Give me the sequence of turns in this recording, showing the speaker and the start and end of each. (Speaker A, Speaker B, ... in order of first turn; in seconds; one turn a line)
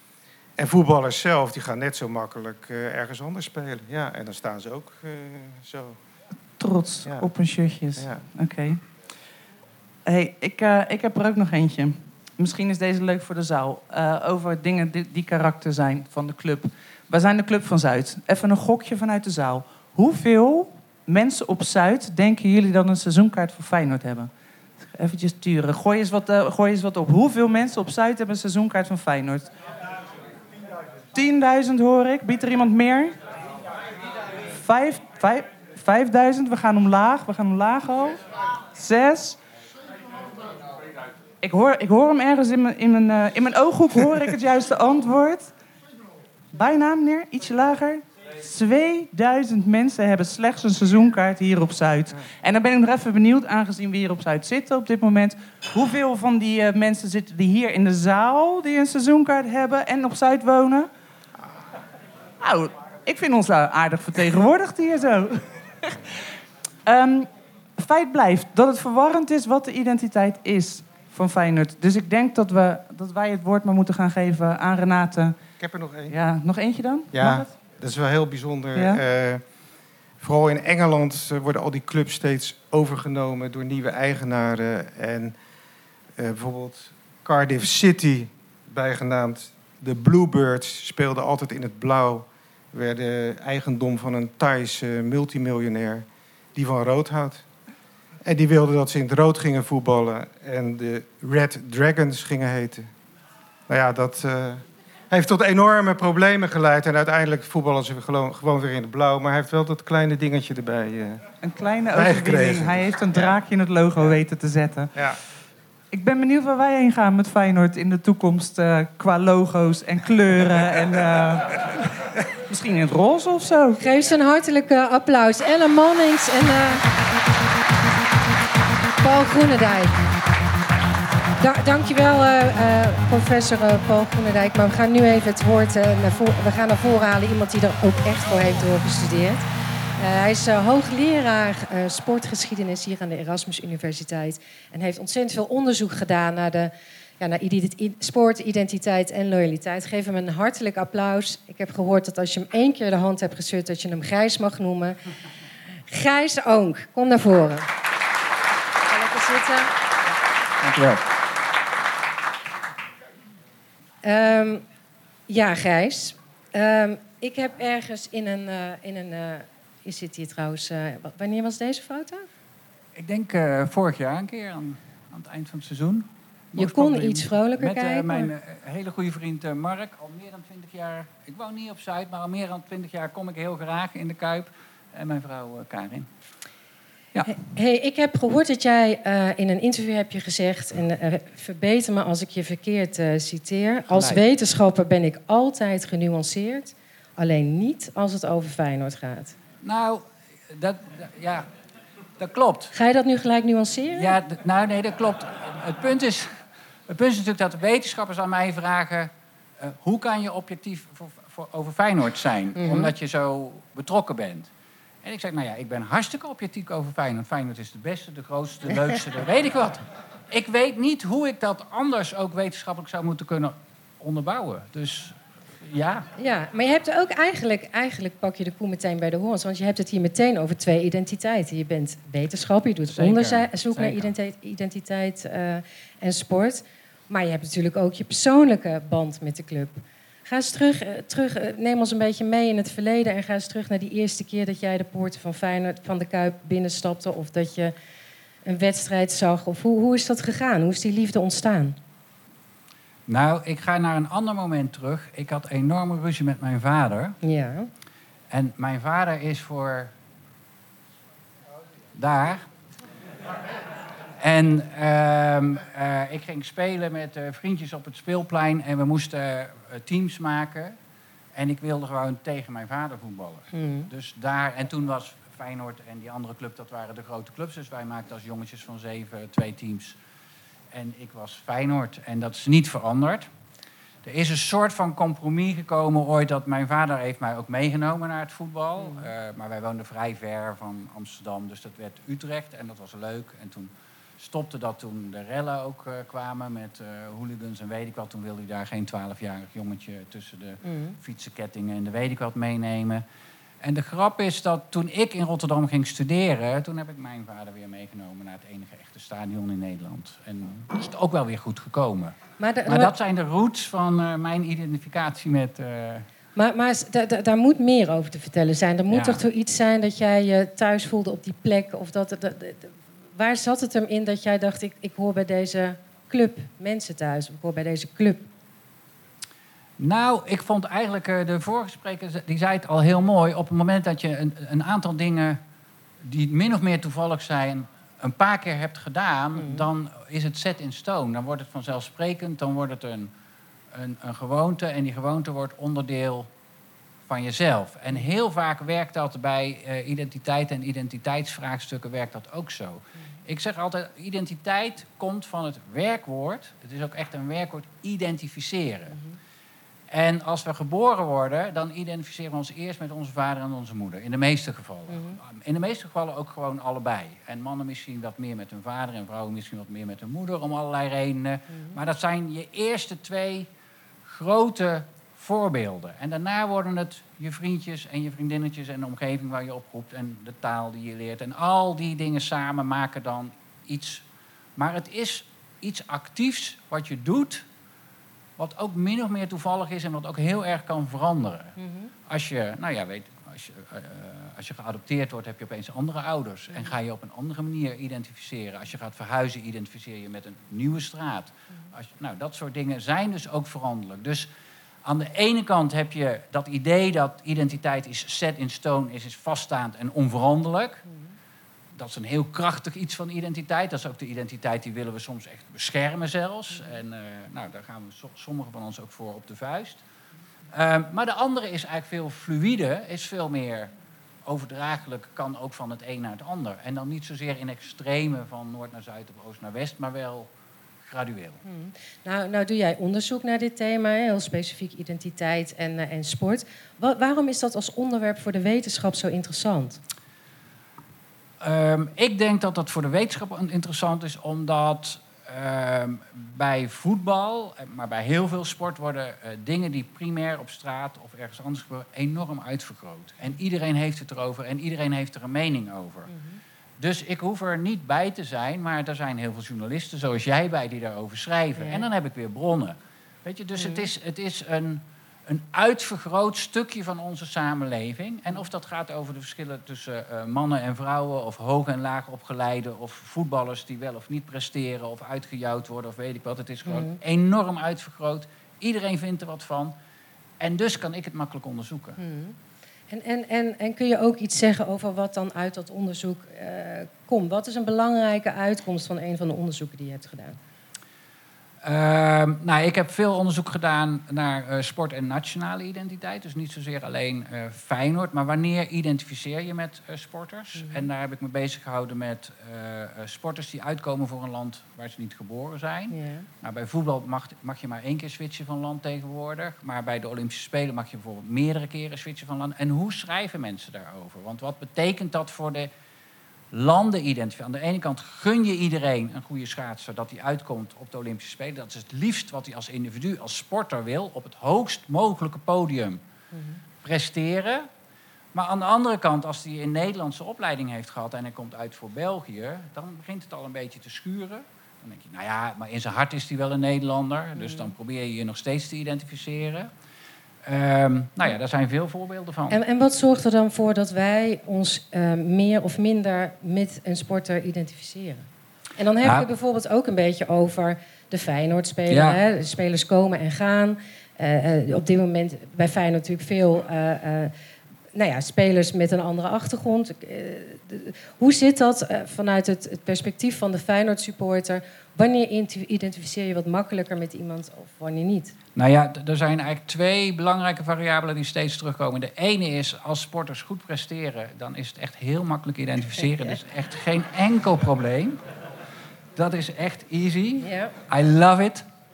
Speaker A: 0.6-6.0
Speaker B: 6.6-8.8
Speaker A: 8.0-8.2
Speaker B: 10.1-24.3
Speaker B: 24.8-29.5
Speaker B: 31.1-33.2
Speaker B: 34.5-38.2
Speaker B: 38.7-39.4
Speaker B: 41.4-45.5
Speaker B: 46.5-60.9
Speaker B: 62.4-66.0
Speaker B: 66.9-75.4
Speaker A: 75.6-76.2
Speaker B: 76.1-77.5
Speaker A: 77.1-79.4
Speaker A: 80.2-85.4
Speaker A: 86.2-97.5
Speaker A: 98.2-102.9
Speaker A: 103.7-111.2
Speaker B: 111.4-114.9
Speaker A: 111.9-113.4
Speaker B: 115.9-121.7
Speaker B: 122.5-123.8
Speaker C: 123.8-126.8
Speaker C: 129.0-129.9
Speaker C: 131.4-139.5
Speaker C: 140.0-155.0
Speaker C: 155.9-157.7
Speaker C: 158.9-159.7
Speaker D: 160.6-161.0
Speaker C: 164.0-164.6
Speaker C: 165.3-172.3
Speaker D: 173.0-186.1
Speaker C: 176.6-178.3
Speaker C: 187.3-199.3
Speaker D: 193.9-194.2
Speaker D: 199.6-201.5
Speaker D: 202.2-202.7
Speaker C: 202.7-204.2
Speaker D: 204.0-206.4
Speaker D: 206.9-214.5
Speaker C: 212.6-212.9
Speaker D: 215.0-226.1
Speaker C: 226.2-247.7
Speaker D: 232.9-234.1
Speaker C: 248.4-251.8
Speaker D: 253.1-257.2
Speaker C: 257.2-257.7
Speaker D: 258.3-259.9
Speaker D: 261.9-262.5
Speaker D: 264.2-270.8
Speaker D: 271.4-280.0
Speaker C: 273.5-273.9
Speaker D: 280.7-283.3
Speaker D: 284.0-303.0
Speaker C: 288.8-289.1
Speaker C: 300.6-301.0
Speaker D: 303.6-316.1
Speaker C: 312.4-312.9
Speaker C: 316.4-328.3
Speaker D: 318.9-319.2
Speaker D: 329.8-335.4
Speaker D: 336.0-343.1
Speaker C: 339.4-339.6
Speaker D: 343.7-346.3
Speaker D: 347.1-359.0
Speaker D: 359.9-373.5
Speaker C: 364.9-365.2
Speaker D: 374.1-384.0
Speaker D: 384.6-387.4
Speaker D: 388.4-391.6
Speaker C: 391.6-391.9
Speaker D: 392.1-404.3
Speaker D: 404.9-410.8
Speaker D: 411.8-419.8
Speaker D: 420.5-423.7
Speaker D: 424.3-430.3
Speaker D: 430.9-431.4
Speaker C: 431.4-439.8
Speaker D: 441.4-456.1
Speaker C: 456.1-456.4
Speaker D: 456.8-479.8
Speaker C: 461.6-461.8
Speaker C: 463.6-463.9
Speaker C: 476.7-477.0
Speaker D: 480.4-482.0
Speaker C: 482.0-482.4
Speaker C: 482.9-490.4
Speaker D: 491.6-515.7
Speaker C: 500.6-500.9
Speaker C: 505.9-506.3
Speaker D: 516.5-526.0
Speaker C: 526.3-526.6
Speaker D: 526.8-527.7
Speaker D: 528.3-539.7
Speaker C: 537.4-537.7
Speaker D: 540.5-542.6
Speaker C: 542.5-557.3
Speaker D: 551.9-552.2
Speaker C: 558.0-568.4
Speaker D: 568.6-578.2
Speaker C: 576.0-576.4
Speaker D: 579.2-581.6
Speaker C: 580.4-580.7